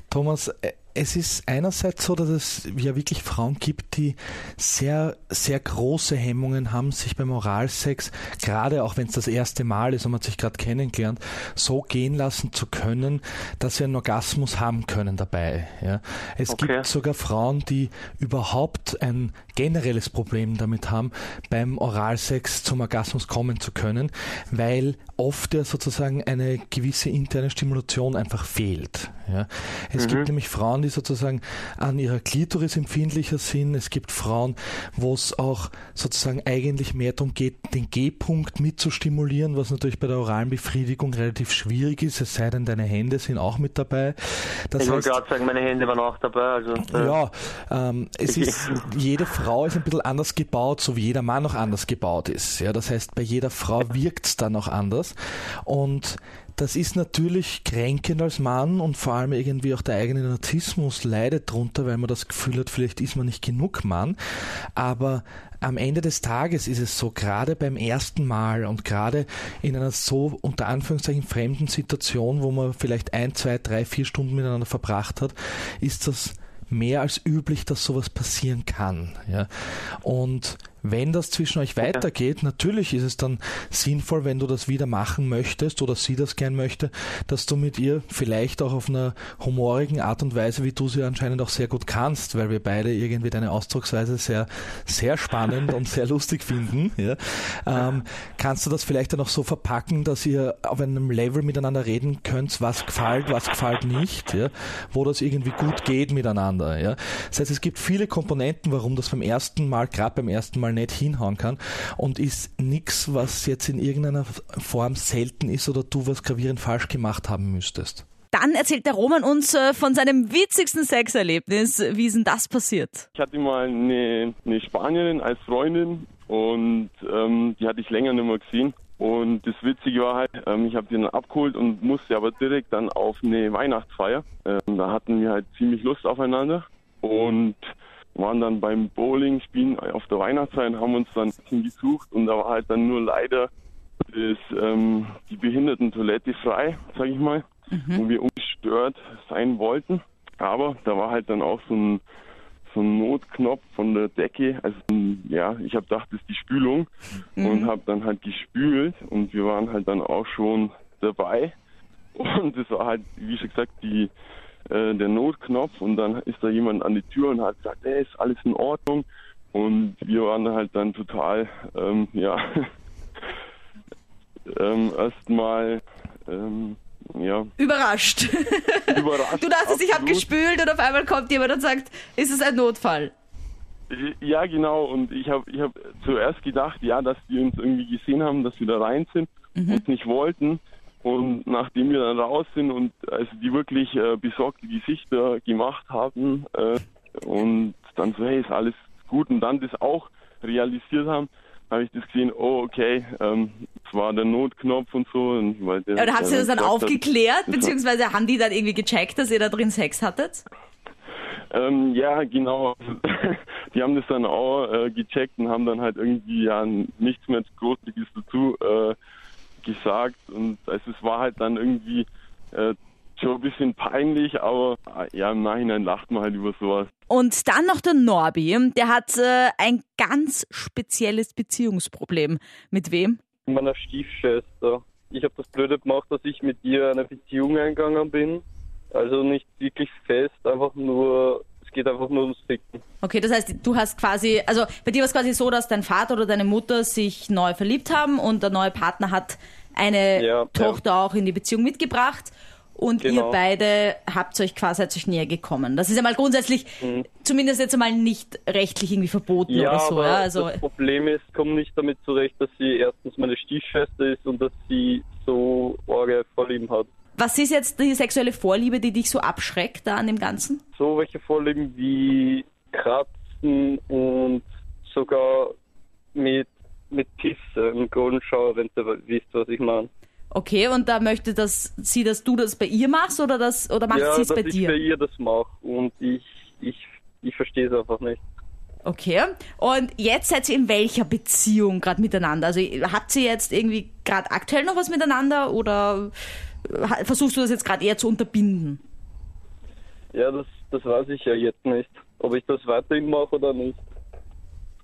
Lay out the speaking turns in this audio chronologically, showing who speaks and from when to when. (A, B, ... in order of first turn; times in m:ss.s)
0:00.1-0:45.2 A
0:16.5-0:16.8 B
0:30.0-0:30.3 B
0:44.8-0:47.2 B
0:46.9-1:04.2 A
0:48.3-0:48.8 B
1:04.8-1:58.0 A
1:58.3-2:03.1 C
2:03.1-2:17.6 D
2:18.2-2:32.0 D
2:27.7-2:28.0 C
2:32.7-2:41.6 D
2:37.4-2:37.7 C
2:42.2-2:44.1 D
2:44.7-2:52.7 D
2:54.5-2:57.5 D
2:57.6-3:03.1 C
2:58.9-3:00.3 D
3:03.9-3:27.7 D
3:09.6-3:09.8 C
3:26.0-3:30.4 C
3:31.5-3:39.0 D
3:39.6-3:46.9 D
3:47.1-3:53.2 C
3:53.5-4:02.8 E
4:03.0-4:20.6 C
4:10.2-4:10.8 E
4:13.0-4:13.4 E
4:16.8-4:17.1 E
4:19.5-4:26.9 E
4:27.2-4:30.6 C
4:30.7-4:35.6 E
4:36.1-4:39.9 E
4:40.3-4:44.8 C
4:43.9-4:48.2 E
4:48.8-4:56.1 C
4:56.6-4:58.8 C
5:00.1-5:03.8 E